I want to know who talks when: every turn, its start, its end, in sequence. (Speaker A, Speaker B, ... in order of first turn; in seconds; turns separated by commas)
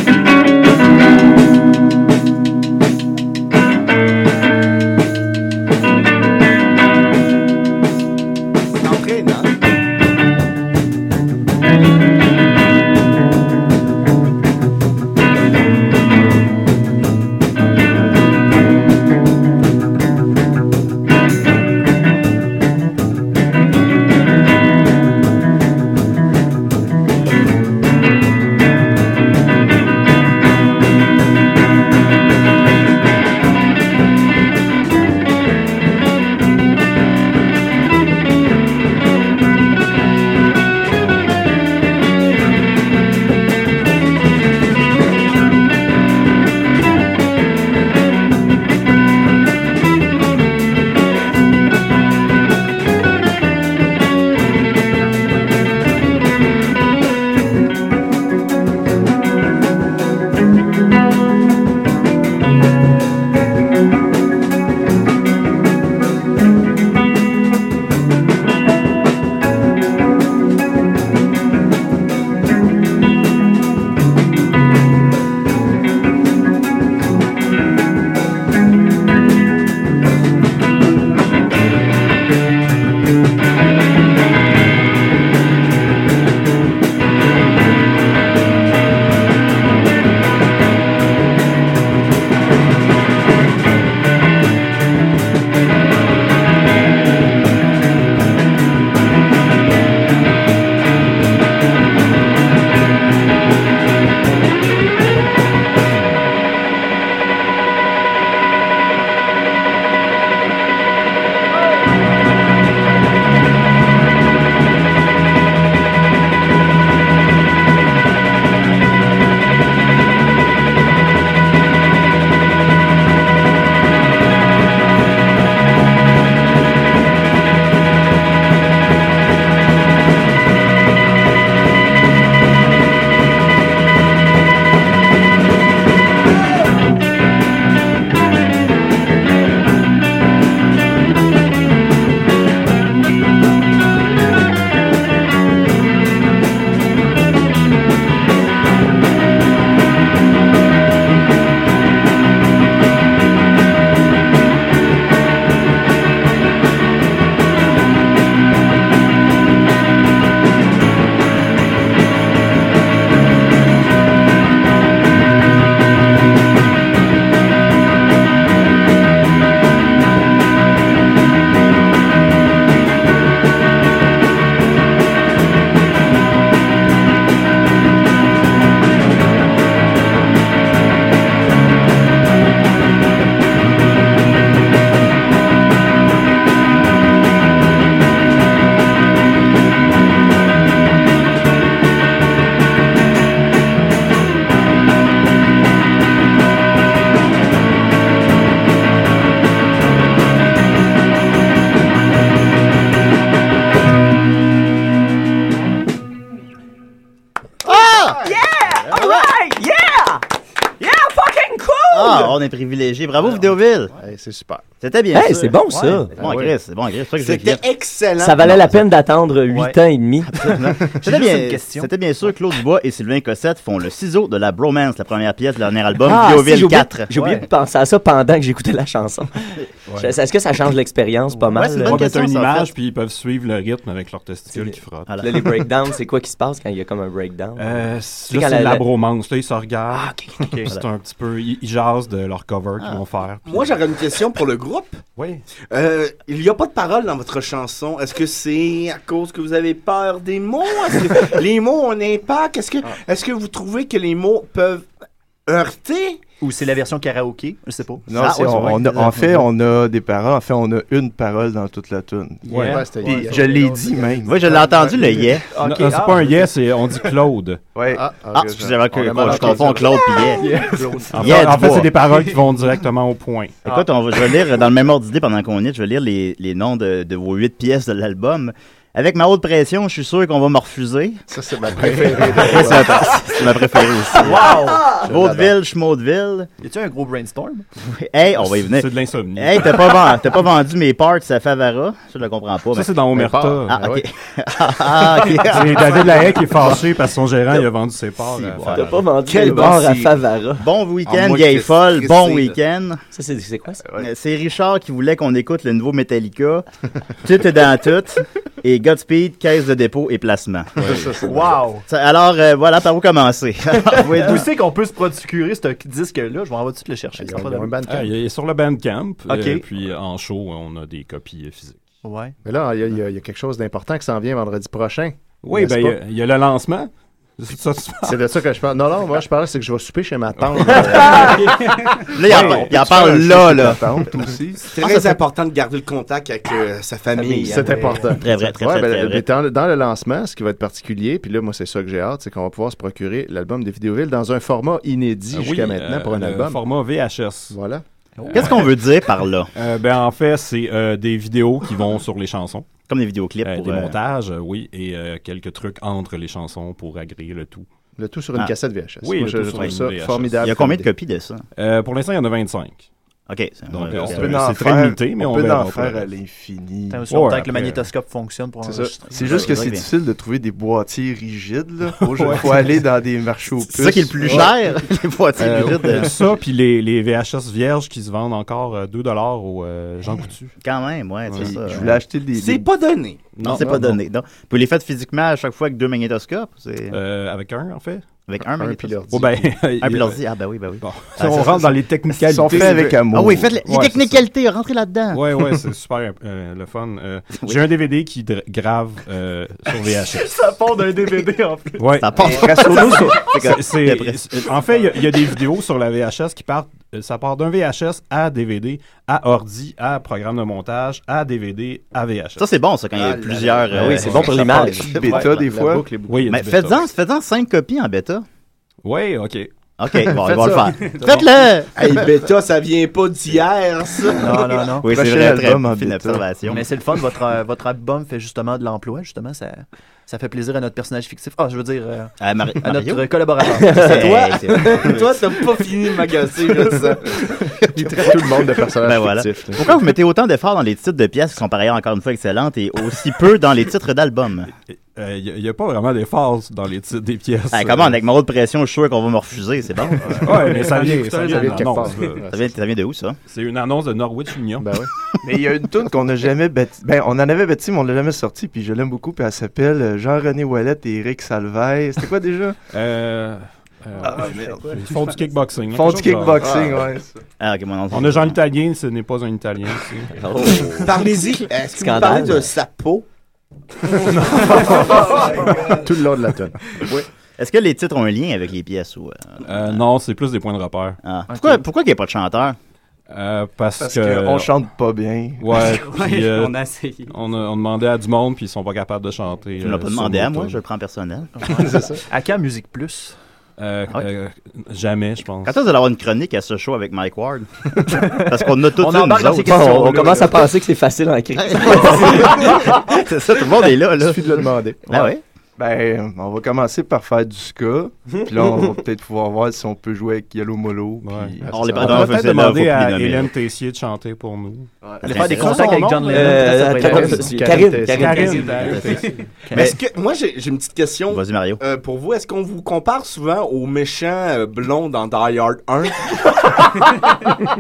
Speaker A: 8.8-9.6, Speaker B: 207.6-208.2, Speaker C: 208.2-210.2, Speaker B: 208.9-209.3, Speaker C: 210.8-212.3, Speaker B: 211.9-213.9, Speaker D: 213.9-214.6, Speaker B: 214.8-215.5, Speaker C: 215.1-216.1, Speaker E: 215.7-216.1, Speaker D: 216.2-216.5, Speaker B: 216.2-217.6, Speaker A: 217.2-218.6, Speaker C: 218.2-220.6, Speaker B: 218.4-218.8, Speaker E: 219.5-219.8, Speaker B: 220.3-227.1, Speaker E: 221.0-221.9, Speaker C: 226.0-232.0, Speaker E: 227.1-227.4, Speaker B: 231.5-232.7, Speaker F: 231.8-235.4, Speaker C: 234.5-238.8, Speaker F: 237.6-243.8, Speaker A: 243.4-245.0, Speaker F: 245.2-245.4, Speaker A: 245.7-254.9, Speaker A: 255.5-256.2, Speaker E: 256.4-259.4, Speaker G: 258.1-264.6, Speaker B: 258.2-259.1, Speaker F: 262.5-262.9, Speaker D: 262.5-264.9, Speaker E: 263.0-263.7, Speaker B: 264.2-265.4, Speaker E: 265.5-266.5, Speaker F: 265.6-267.6, Speaker G: 267.7-268.7, Speaker D: 267.9-270.0, Speaker B: 268.3-270.6, Speaker E: 270.2-271.3, Speaker D: 270.7-271.2, Speaker F: 271.1-273.6, Speaker B: 271.1-271.9, Speaker B: 273.6-281.2, Speaker D: 281.3-283.0, Speaker B: 281.7-286.5, Speaker F: 281.9-282.4, Speaker E: 284.1-284.9, Speaker D: 285.0-285.5, Speaker E: 286.6-287.6, Speaker B: 287.8-293.0, Speaker F: 288.6-290.0, Speaker F: 292.7-293.8, Speaker D: 293.1-294.0, Speaker B: 293.7-296.8, Speaker F: 295.4-299.0, Speaker B: 298.3-298.9, Speaker C: 298.7-300.7, Speaker A: 299.2-300.1, Speaker B: 300.6-303.0, Speaker A: 301.1-302.6, Speaker C: 303.1-303.8, Speaker B: 304.0-306.6, Speaker B: 307.2-311.0, Speaker D: 310.8-311.6, Speaker E: 311.2-311.8, Speaker B: 311.9-314.4, Speaker E: 313.8-317.7, Speaker D: 317.2-318.1, Speaker F: 317.9-321.9, Speaker E: 319.3-319.6, Speaker E: 322.0-322.4, Speaker D: 322.4-326.0, Speaker F: 325.4-328.2, Speaker D: 328.0-331.9, Speaker B: 332.1-333.9, Speaker G: 332.2-334.7, Speaker F: 332.3-332.7, Speaker A: 334.7-338.0, Speaker D: 337.4-346.6, Speaker E: 337.7-338.0, Speaker B: 338.1-339.2, Speaker F: 345.3-347.6, Speaker D: 347.5-347.8, Speaker E: 348.2-348.5, Speaker F: 348.3-348.7, Speaker B: 348.3-349.5, Speaker F: 349.5-352.7, Speaker B: 352.9-354.0, Speaker F: 353.4-357.7, Speaker D: 358.0-360.9, Speaker F: 359.0-360.5, Speaker B: 360.4-361.4, Speaker F: 361.6-362.9, Speaker B: 363.3-364.8, Speaker F: 363.7-366.1, Speaker G: 363.9-367.0, Speaker E: 366.9-369.5, Speaker F: 367.1-367.8, Speaker D: 368.6-369.0, Speaker G: 369.1-374.5, Speaker B: 369.2-369.9, Speaker F: 372.0-372.6, Speaker B: 373.7-376.1, Speaker F: 375.4-380.5, Speaker B: 380.6-382.0, Speaker F: 381.3-381.6, Speaker G: 381.4-382.7, Speaker A: 382.3-383.3, Speaker F: 383.3-384.0, Speaker B: 383.4-387.0, Speaker F: 386.9-388.0, Speaker B: 388.3-395.5, Speaker D: 388.4-389.5, Speaker F: 389.1-390.2, Speaker F: 390.8-393.0, Speaker G: 392.2-393.6, Speaker F: 393.6-394.2, Speaker F: 395.1-400.3, Speaker E: 400.1-403.3, Speaker F: 401.8-412.4, Speaker B: 402.0-404.6, Speaker G: 402.2-403.1, Speaker C: 402.6-402.9, Speaker B: 412.4-415.4, Speaker D: 412.9-416.3, Speaker C: 413.7-415.0, Speaker F: 413.8-414.1, Speaker G: 414.8-415.9, Speaker F: 416.1-416.8, Speaker B: 416.3-418.2, Speaker F: 418.8-419.5, Speaker B: 419.8-421.7, Speaker D: 419.9-421.2, Speaker A: 421.7-424.6, Speaker E: 424.2-424.9, Speaker B: 424.8-426.6, Speaker G: 424.9-426.3, Speaker E: 426.5-434.3, Speaker B: 432.2-433.1, Speaker C: 433.6-434.2, Speaker B: 433.6-435.1, Speaker A: 434.1-437.2, Speaker D: 436.6-439.8, Speaker B: 438.8-444.5, Speaker F: 444.7-447.9, Speaker B: 447.5-450.5, Speaker D: 450.1-452.5, Speaker F: 450.2-452.2, Speaker B: 452.3-453.2, Speaker F: 453.3-454.8, Speaker D: 454.6-454.9, Speaker G: 455.2-462.6, Speaker F: 462.7-466.6, Speaker G: 464.0-464.8, Speaker G: 465.7-467.2, Speaker D: 466.4-466.8, Speaker B: 467.4-468.4, Speaker F: 467.9-470.2, Speaker C: 470.1-471.0, Speaker A: 470.8-473.1, Speaker C: 471.8-472.5, Speaker F: 474.0-474.4, Speaker D: 474.5-476.7, Speaker B: 476.9-479.8, Speaker F: 479.4-481.0, Speaker B: 481.0-482.6, Speaker E: 481.3-481.6, Speaker F: 483.1-484.5, Speaker G: 483.8-485.6, Speaker F: 485.4-490.6, Speaker B: 489.6-491.3, Speaker E: 491.4-493.1, Speaker D: 491.5-492.0, Speaker F: 493.6-495.5, Speaker B: 495.4-499.7, Speaker E: 497.9-500.4, Speaker C: 499.4-502.9, Speaker B: 501.4-505.2, Speaker D: 503.9-505.1, Speaker G: 505.6-511.5, Speaker C: 508.1-508.7, Speaker F: 511.0-514.7, Speaker D: 511.4-512.1, Speaker B: 511.5-513.3, Speaker B: 515.0-516.0, Speaker E: 515.0-517.4, Speaker C: 516.0-518.8, Speaker D: 516.5-518.9, Speaker F: 518.0-518.9, Speaker B: 518.7-519.0, Speaker E: 519.4-519.7, Speaker B: 519.5-519.8, Speaker A: 519.5-526.4, Speaker B: 521.1-521.6, Speaker E: 526.6-527.0